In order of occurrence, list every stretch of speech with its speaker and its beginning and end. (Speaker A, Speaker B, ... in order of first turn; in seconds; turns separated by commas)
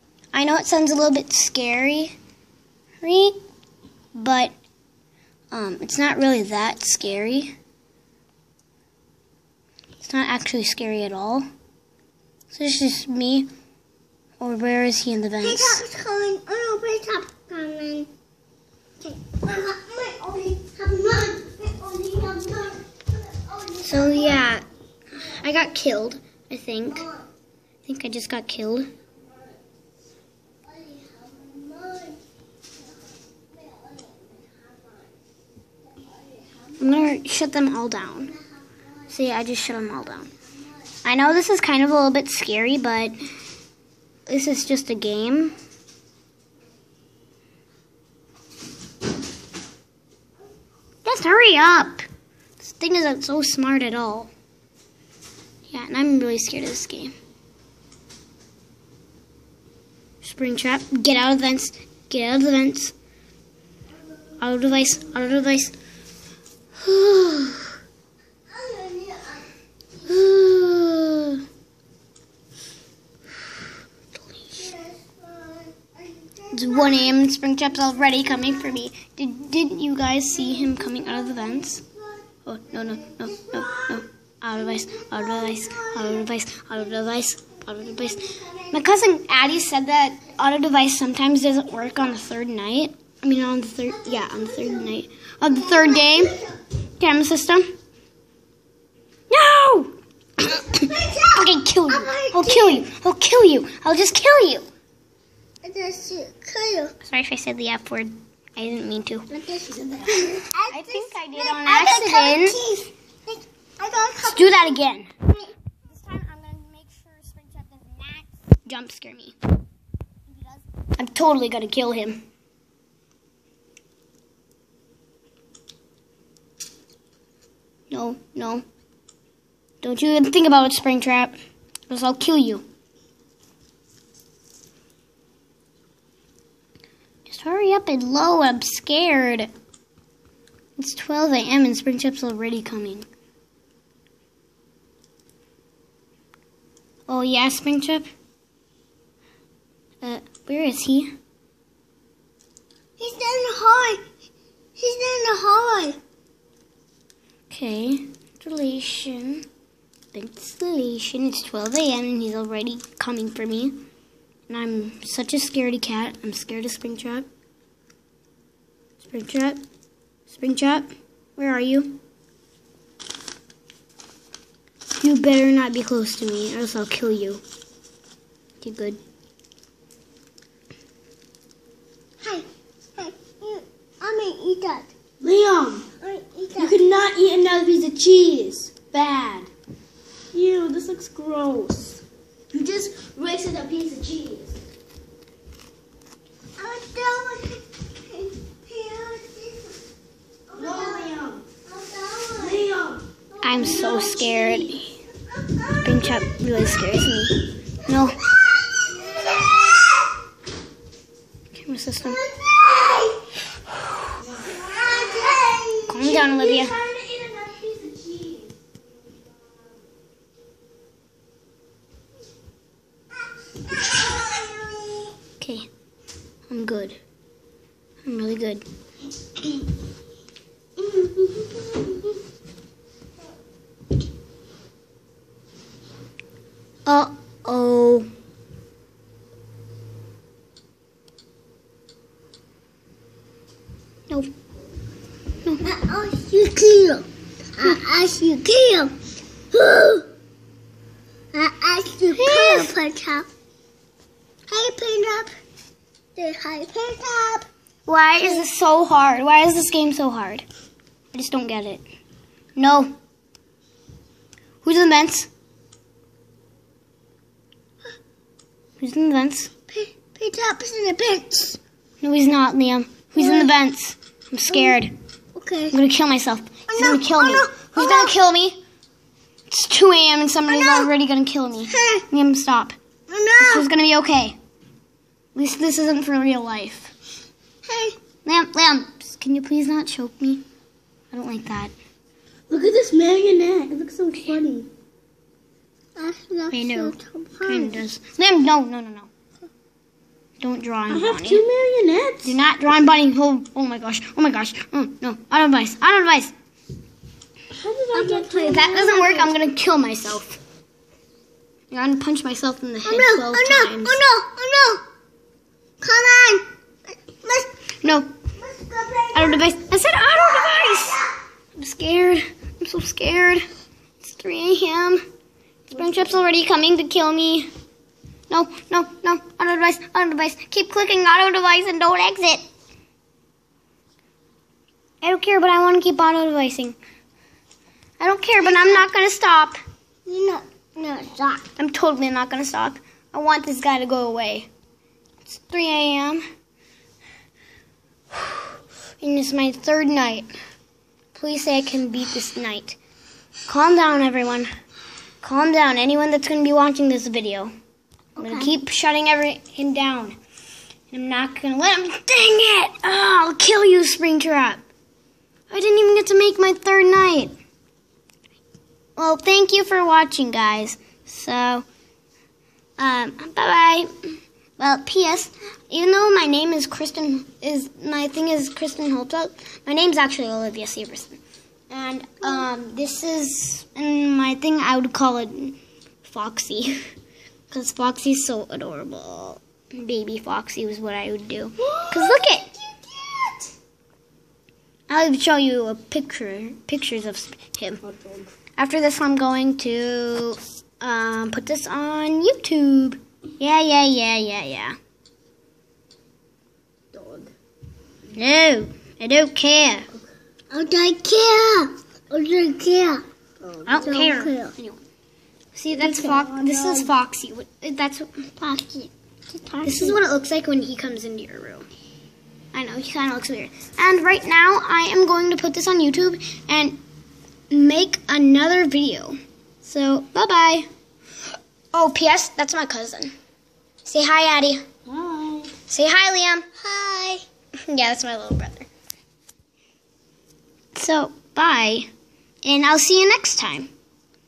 Speaker A: 0.3-2.1, Speaker A: 3.0-3.4, Speaker A: 4.2-4.5, Speaker A: 5.5-7.6, Speaker A: 10.0-11.5, Speaker A: 12.5-13.5, Speaker A: 14.4-15.8, Speaker B: 15.4-18.1, Speaker B: 19.0-24.6, Speaker A: 23.8-27.1, Speaker A: 27.9-28.9, Speaker B: 30.7-32.2, Speaker B: 33.5-35.1, Speaker A: 36.8-38.3, Speaker A: 39.1-40.3, Speaker A: 41.0-43.1, Speaker A: 44.3-45.5, Speaker A: 51.0-52.0, Speaker A: 52.6-54.3, Speaker A: 55.7-57.1, Speaker A: 60.2-62.9, Speaker A: 64.4-65.7, Speaker A: 66.8-67.8, Speaker B: 68.5-69.5, Speaker A: 70.0-71.4, Speaker A: 74.2-74.7, Speaker B: 74.6-77.2, Speaker A: 76.5-81.8, Speaker B: 80.6-81.5, Speaker A: 82.5-96.4, Speaker B: 83.3-83.9, Speaker B: 84.9-86.2, Speaker B: 88.3-88.7, Speaker B: 94.0-94.9, Speaker B: 95.5-96.6, Speaker A: 97.0-97.7, Speaker A: 99.3-104.7, Speaker B: 100.7-102.9, Speaker B: 105.6-106.9, Speaker A: 107.0-109.3, Speaker B: 109.4-114.8, Speaker C: 109.6-110.4, Speaker A: 110.7-112.6, Speaker A: 114.2-115.1, Speaker A: 115.9-119.4, Speaker A: 120.5-122.2, Speaker A: 127.9-128.7, Speaker A: 129.8-131.3, Speaker A: 131.9-132.6, Speaker A: 137.3-139.5, Speaker A: 140.8-143.1, Speaker A: 147.1-148.1, Speaker A: 150.0-151.2, Speaker B: 153.0-154.0, Speaker B: 154.8-156.0, Speaker A: 157.5-159.5, Speaker A: 160.1-163.8, Speaker A: 164.5-167.3, Speaker A: 169.0-169.6, Speaker A: 170.3-172.0, Speaker A: 174.9-177.4, Speaker A: 178.6-179.0, Speaker B: 182.2-182.5, Speaker B: 183.0-184.9, Speaker C: 185.2-185.9, Speaker B: 186.0-186.8, Speaker C: 186.6-189.5, Speaker C: 190.3-192.0, Speaker C: 192.5-194.6, Speaker B: 196.6-199.8, Speaker B: 200.5-202.7, Speaker C: 200.5-201.4, Speaker C: 202.4-203.0, Speaker B: 203.3-204.7, Speaker A: 203.4-205.0, Speaker C: 203.6-204.5, Speaker B: 205.3-206.6, Speaker A: 205.8-208.2, Speaker B: 208.2-210.0, Speaker A: 211.5-212.2, Speaker B: 212.0-213.3, Speaker C: 214.2-218.6, Speaker B: 214.5-216.1, Speaker A: 215.9-216.8, Speaker B: 223.6-225.1, Speaker A: 225.4-225.7, Speaker A: 226.5-227.0, Speaker A: 228.0-228.7, Speaker B: 230.9-231.7, Speaker A: 236.9-238.1, Speaker B: 245.6-248.9, Speaker B: 249.5-250.1, Speaker B: 251.3-253.3, Speaker A: 252.1-252.7, Speaker B: 254.5-255.3, Speaker B: 256.2-257.5, Speaker A: 257.9-260.4, Speaker A: 261.1-261.8, Speaker A: 262.6-262.9, Speaker A: 264.6-265.3, Speaker A: 268.8-269.5, Speaker B: 269.7-271.6, Speaker A: 272.0-274.9, Speaker B: 273.2-273.5, Speaker B: 274.5-274.8, Speaker B: 275.4-275.8, Speaker A: 275.7-278.6, Speaker B: 276.7-278.1, Speaker A: 279.5-282.8, Speaker B: 280.5-280.9, Speaker B: 281.7-282.0, Speaker B: 283.1-283.6, Speaker A: 283.4-284.4, Speaker A: 285.4-286.9, Speaker B: 287.6-288.0, Speaker A: 288.2-290.4, Speaker A: 291.1-291.7, Speaker C: 292.5-294.7, Speaker B: 296.0-297.8, Speaker A: 296.5-299.1, Speaker A: 300.4-301.4, Speaker C: 300.9-302.3, Speaker A: 302.2-306.3, Speaker C: 307.5-309.1, Speaker B: 307.9-309.3, Speaker A: 308.4-310.4, Speaker A: 311.7-314.0, Speaker B: 312.9-314.8, Speaker B: 315.8-316.4, Speaker B: 317.0-317.5, Speaker A: 317.8-318.1, Speaker B: 318.4-319.5, Speaker A: 319.1-321.0, Speaker B: 320.1-321.1, Speaker A: 321.6-323.4, Speaker A: 324.0-325.0, Speaker A: 325.7-327.5, Speaker A: 328.3-332.4, Speaker A: 335.0-336.8, Speaker A: 338.0-339.6, Speaker B: 338.4-338.9, Speaker B: 340.1-341.5, Speaker A: 341.6-344.5, Speaker A: 345.3-346.2, Speaker A: 348.1-348.5, Speaker A: 349.0-350.3, Speaker A: 351.1-352.8, Speaker A: 353.5-354.5, Speaker A: 355.2-357.5, Speaker B: 358.2-358.5, Speaker A: 358.2-360.2, Speaker A: 360.9-364.6, Speaker A: 365.5-367.3, Speaker A: 369.0-371.6, Speaker A: 372.8-386.8, Speaker A: 387.5-392.5, Speaker C: 391.6-393.4, Speaker A: 394.9-397.8, Speaker C: 397.8-398.3, Speaker A: 398.6-404.8, Speaker C: 406.9-407.3, Speaker A: 408.1-409.9, Speaker B: 410.5-413.0, Speaker C: 413.4-413.9, Speaker A: 413.7-414.8, Speaker B: 413.8-414.5, Speaker A: 415.6-418.6, Speaker C: 415.7-416.9, Speaker B: 418.6-420.0, Speaker A: 419.6-421.7, Speaker A: 422.5-426.8, Speaker A: 427.5-430.7, Speaker A: 431.7-433.1, Speaker A: 433.9-434.6, Speaker C: 434.9-435.5, Speaker A: 435.7-436.5, Speaker B: 436.6-437.2, Speaker A: 437.7-438.7, Speaker A: 440.8-441.9, Speaker A: 442.4-443.7